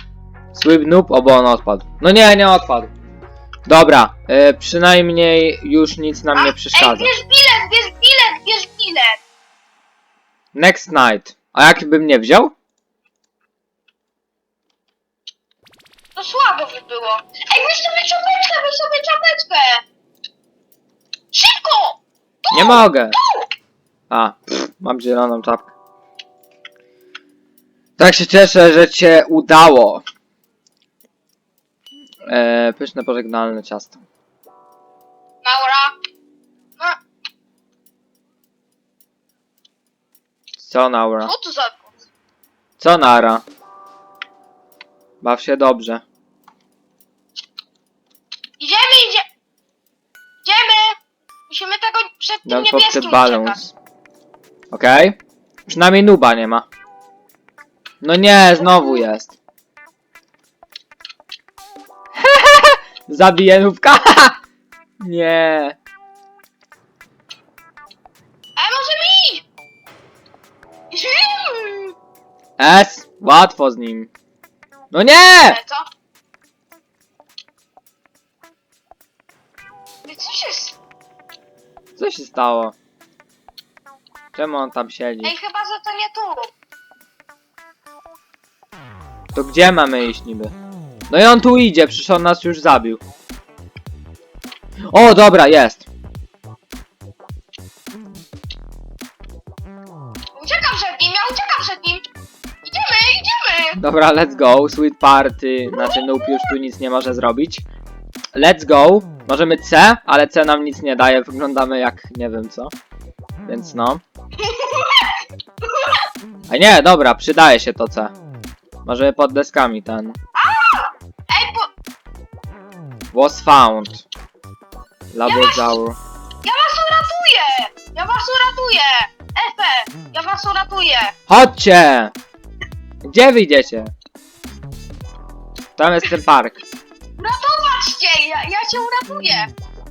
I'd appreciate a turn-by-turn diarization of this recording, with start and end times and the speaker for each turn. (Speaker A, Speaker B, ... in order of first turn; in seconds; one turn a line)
Speaker A: 0.5-2.9
Speaker A: 3.6-7.1
Speaker B: 6.3-9.2
Speaker A: 10.5-12.5
Speaker B: 16.1-19.8
Speaker B: 21.3-23.5
Speaker A: 22.5-23.1
Speaker A: 24.1-25.7
Speaker A: 28.0-30.0
Speaker A: 32.2-34.0
Speaker B: 35.4-36.0
Speaker A: 40.6-41.3
Speaker B: 41.2-42.0
Speaker A: 42.8-43.4
Speaker A: 45.2-46.0
Speaker B: 48.6-49.2
Speaker B: 50.4-53.6
Speaker A: 52.5-53.7
Speaker A: 54.7-55.1
Speaker A: 55.7-56.7
Speaker A: 58.0-59.4
Speaker B: 58.6-59.0
Speaker A: 62.2-64.4
Speaker A: 65.0-65.8
Speaker B: 68.5-69.4
Speaker B: 70.9-71.9
Speaker A: 72.6-74.1
Speaker A: 74.9-75.6
Speaker B: 75.4-75.9
Speaker B: 80.0-80.8
Speaker A: 82.0-82.8
Speaker A: 84.3-85.3
Speaker B: 85.2-86.5
Speaker A: 89.3-90.5
Speaker A: 91.1-93.0
Speaker A: 94.9-95.8
Speaker B: 100.4-102.0
Speaker B: 102.6-103.8
Speaker A: 103.8-107.6
Speaker B: 105.7-106.5
Speaker A: 108.3-112.7
Speaker A: 113.4-114.0
Speaker B: 114.4-115.2
Speaker A: 116.5-118.1
Speaker A: 118.8-120.2
Speaker B: 120.3-121.7
Speaker A: 123.1-124.0
Speaker A: 125.1-126.0
Speaker B: 125.2-125.8
Speaker B: 126.4-131.1
Speaker A: 131.3-132.1
Speaker A: 133.0-133.9
Speaker A: 135.8-136.6
Speaker B: 137.2-139.5